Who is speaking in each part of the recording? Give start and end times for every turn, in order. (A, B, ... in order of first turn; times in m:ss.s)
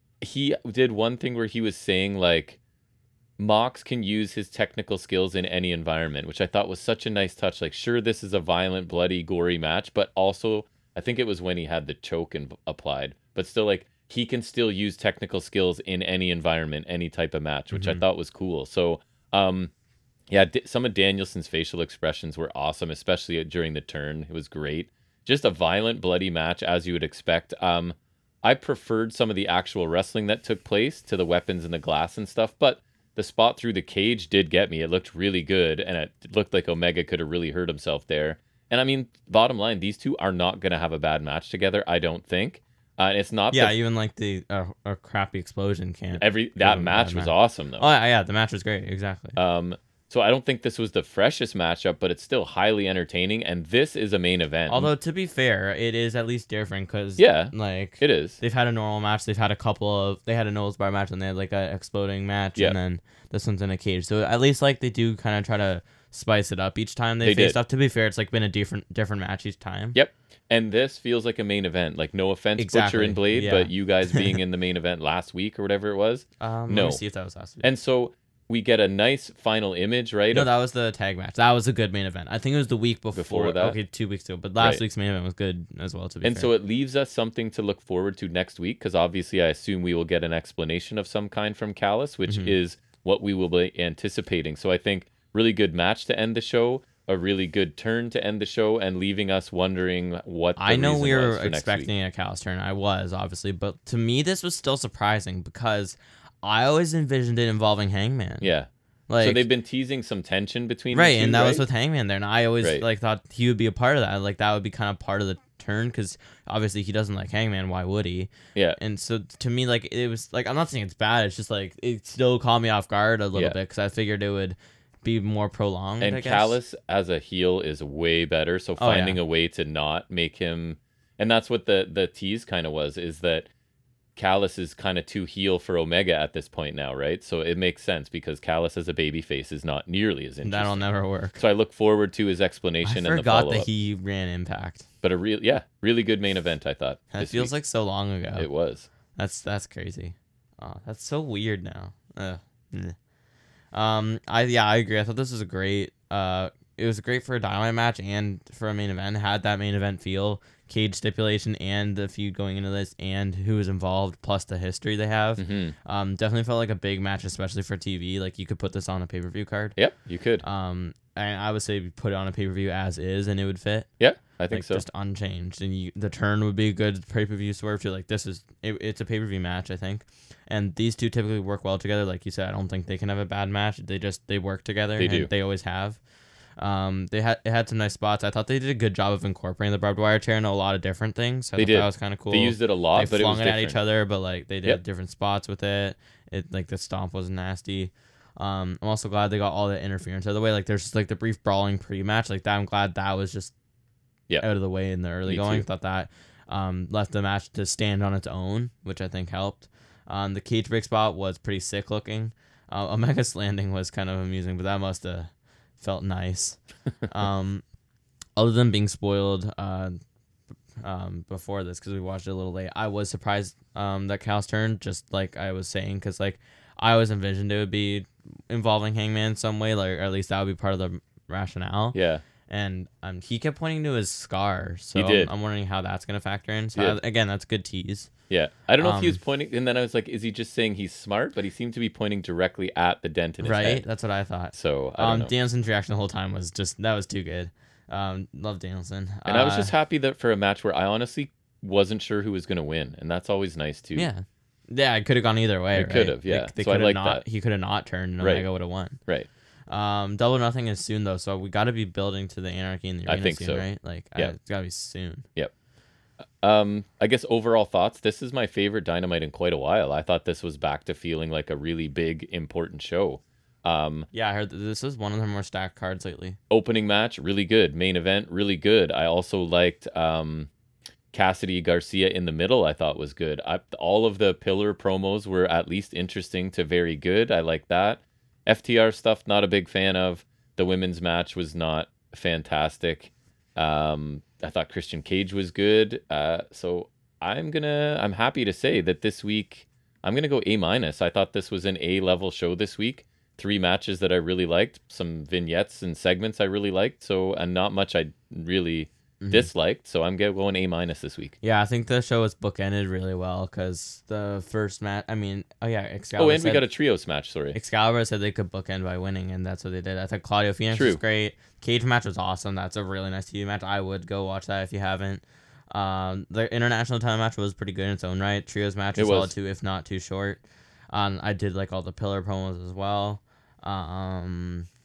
0:00.2-0:02.6 A
0:03.4-0:19.7 A
0:17.7-0:18.0 B
0:20.3-0:43.8 A
0:43.5-0:49.4 B
0:46.2-0:47.9 A
0:49.4-0:54.9 A
0:54.7-1:10.0 B
0:57.2-0:58.4 A
1:07.2-1:07.6 A
1:10.0-1:17.0 A
1:12.6-1:14.4 B
1:16.4-1:17.7 B
1:17.6-1:20.5 A
1:20.3-1:26.5 B
1:23.1-1:23.8 A
1:26.2-1:41.9 A
1:32.3-1:32.5 B
1:40.6-1:48.5 B
1:48.4-1:51.7 A
1:49.1-1:49.4 B
1:50.9-2:06.6 B
2:06.0-2:13.5 A
2:08.8-2:09.2 B
2:14.2-2:20.9 A
2:20.4-2:21.4 B
2:21.4-2:23.7 A
2:22.8-2:24.9 B
2:25.0-2:27.5 A
2:27.1-2:28.5 B
2:28.4-2:28.9 A
2:29.2-2:33.0 B
2:33.7-2:49.8 B
2:45.4-2:45.8 A
2:49.8-2:50.4 A
2:50.4-2:53.9 B
2:54.0-2:54.8 A
2:54.5-3:06.0 B
3:05.0-3:05.3 A
3:06.6-3:23.5 B
3:11.6-3:13.8 A
3:24.4-3:37.6 B
3:25.3-3:25.6 A
3:38.4-3:40.0 B
3:40.8-3:52.0 B
3:51.9-3:52.2 A
3:52.5-3:58.1 B
3:55.0-3:55.3 A
3:58.3-4:03.8 A
3:58.8-3:59.2 B
4:03.4-4:09.7 B
4:04.5-4:05.3 A
4:09.3-4:14.1 A
4:14.0-4:19.0 B
4:15.7-4:17.2 A
4:18.2-4:18.5 A
4:19.7-4:25.3 B
4:23.1-4:23.7 A
4:26.4-4:34.1 A
4:34.1-4:36.4 B
4:36.5-4:40.5 A
4:41.1-5:11.4 A
5:09.2-5:09.5 B
5:11.4-5:16.7 B
5:16.2-5:17.6 A
5:17.5-5:34.7 B
5:20.7-5:21.0 A
5:29.0-5:29.3 A